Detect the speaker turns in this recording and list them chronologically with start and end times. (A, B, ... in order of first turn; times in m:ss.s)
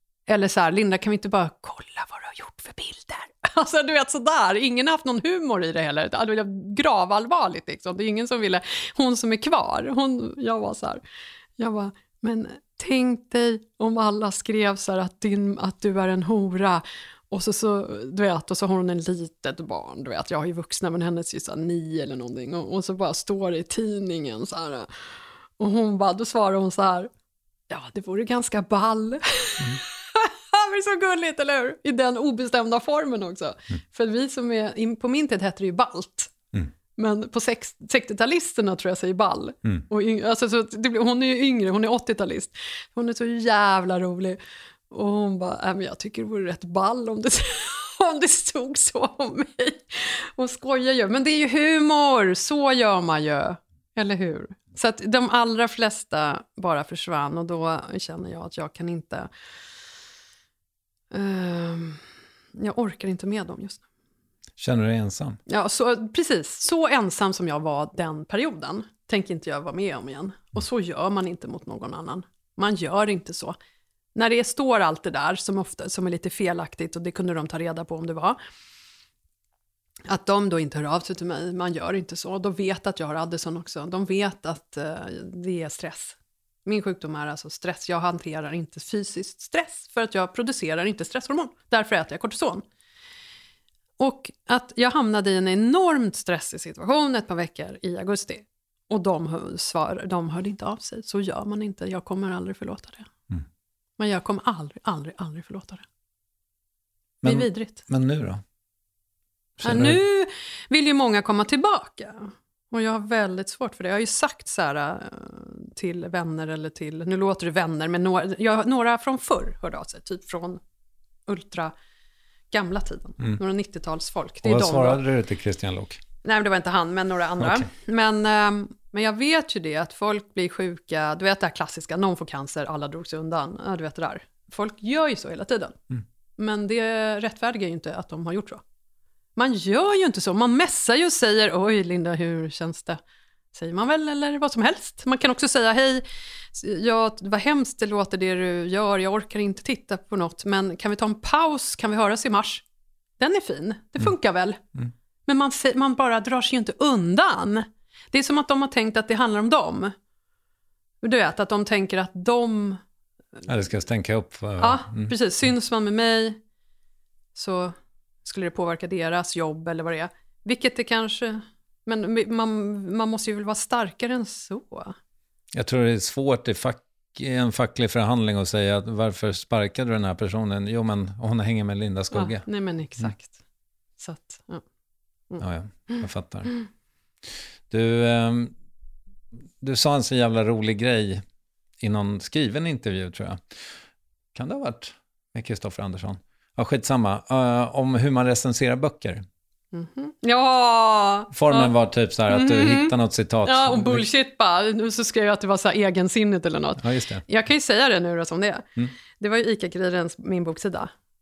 0:00.3-0:11.0 A
0:11.6-0:24.9 A
0:25.6-0:27.1 A
0:27.7-0:36.3 A
0:37.0-0:44.4 A
0:44.9-0:59.3 A
1:01.1-1:02.0 A
1:02.5-1:03.8 A
1:04.6-1:05.4 B
1:05.5-1:13.6 A
1:14.1-1:18.4 A
1:20.1-1:32.6 A
1:34.0-1:43.1 A
1:44.0-1:45.8 A
1:47.2-1:48.4 B
1:47.2-1:47.8 A
1:49.6-1:50.0 B
1:49.6-2:00.6 A
2:01.3-2:01.7 A
2:02.5-2:05.0 A
2:04.4-2:06.0 B
2:06.2-2:15.8 A
2:07.4-2:07.7 B
2:16.4-2:18.6 A
2:19.4-2:23.0 A
2:23.5-2:32.6 A
2:33.2-2:34.6 A
2:35.2-2:39.9 A
2:41.0-2:42.8 A
2:43.5-2:45.1 B
2:44.6-2:46.4 A
2:47.3-2:54.9 A
2:55.5-3:02.4 B
3:02.1-3:03.3 A
3:04.0-3:04.6 A
3:05.3-3:06.5 A
3:05.4-3:06.5 B
3:07.7-3:08.5 B
3:09.6-3:11.2 B
3:11.8-3:13.5 B
3:14.3-3:19.2 B
3:19.7-3:21.7 A
3:21.3-3:24.0 B
3:22.3-3:22.9 A
3:23.4-3:28.7 A
3:26.8-3:27.2 B
3:29.2-3:30.9 A